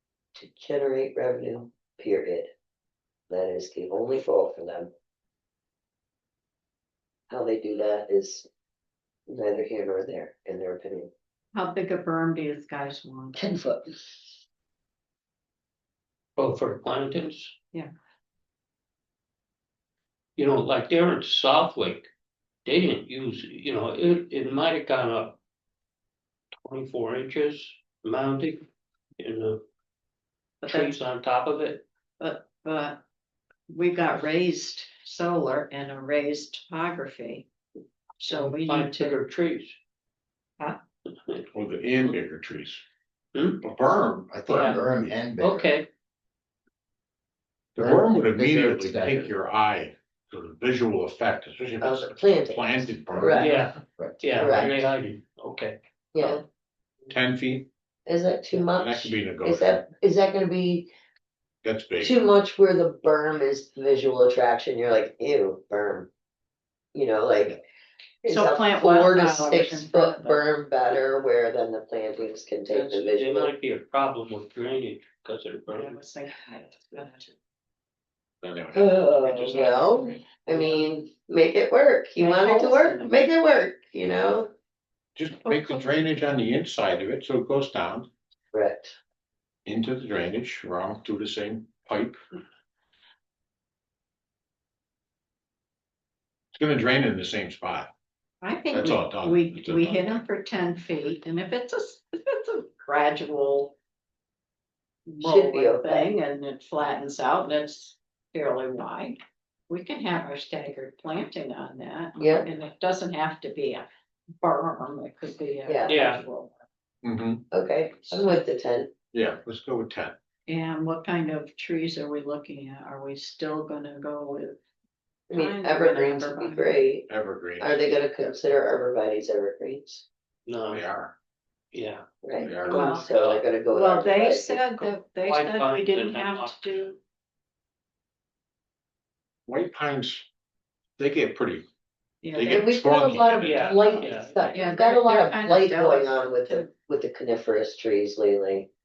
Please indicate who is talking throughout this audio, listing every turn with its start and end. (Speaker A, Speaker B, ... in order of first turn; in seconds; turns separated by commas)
Speaker A: 0.3-2.5, Speaker A: 3.3-4.9, Speaker A: 7.3-8.5, Speaker A: 9.3-11.1, Speaker B: 11.5-13.4, Speaker A: 13.3-14.2, Speaker C: 16.4-17.6, Speaker C: 20.4-22.1, Speaker C: 22.6-25.4, Speaker C: 26.6-28.7, Speaker C: 29.2-29.6, Speaker B: 30.6-31.0, Speaker C: 30.6-31.8, Speaker B: 32.2-33.0, Speaker B: 33.7-37.5, Speaker B: 38.2-39.2, Speaker C: 38.3-39.8, Speaker D: 41.5-42.8, Speaker C: 43.3-43.6, Speaker D: 43.6-44.7, Speaker E: 44.3-45.7, Speaker C: 44.5-44.8, Speaker C: 45.4-45.9, Speaker E: 47.8-49.3, Speaker D: 47.8-53.5, Speaker A: 51.8-53.5, Speaker E: 53.1-53.5, Speaker C: 53.4-56.4, Speaker E: 54.0-54.7, Speaker A: 54.3-54.7, Speaker A: 56.1-56.4, Speaker D: 57.1-57.7, Speaker A: 58.0-60.9, Speaker D: 58.6-59.7, Speaker D: 61.6-62.2, Speaker A: 62.0-66.1, Speaker A: 66.9-67.6, Speaker A: 68.2-73.5, Speaker B: 68.3-70.5, Speaker C: 72.7-76.0, Speaker B: 75.7-77.3, Speaker D: 78.4-80.2, Speaker A: 78.7-84.5, Speaker B: 82.2-83.2, Speaker D: 85.2-88.1, Speaker B: 85.4-85.9, Speaker A: 88.5-88.9, Speaker D: 89.6-92.2, Speaker D: 96.5-97.9, Speaker B: 98.4-103.8, Speaker D: 98.7-100.1, Speaker B: 105.1-109.2, Speaker A: 105.2-106.1, Speaker B: 109.7-113.9, Speaker A: 112.2-112.5, Speaker B: 114.4-116.5, Speaker A: 115.7-115.9, Speaker C: 115.9-116.2, Speaker D: 117.0-117.4, Speaker A: 117.5-118.9, Speaker B: 118.1-118.4, Speaker D: 119.1-120.1, Speaker B: 120.5-124.6, Speaker A: 125.3-127.1, Speaker B: 125.3-127.0, Speaker D: 127.1-127.9, Speaker A: 127.6-130.0, Speaker C: 130.4-130.8, Speaker D: 130.7-131.1, Speaker C: 131.7-132.0, Speaker A: 132.2-134.6, Speaker D: 132.4-132.9, Speaker B: 132.6-133.1, Speaker C: 132.8-133.4, Speaker B: 133.7-137.0, Speaker C: 135.2-136.9, Speaker D: 139.5-140.3, Speaker D: 141.0-141.7, Speaker B: 142.2-143.1, Speaker D: 142.3-144.3, Speaker A: 142.4-148.7, Speaker C: 143.4-144.6, Speaker B: 143.9-146.7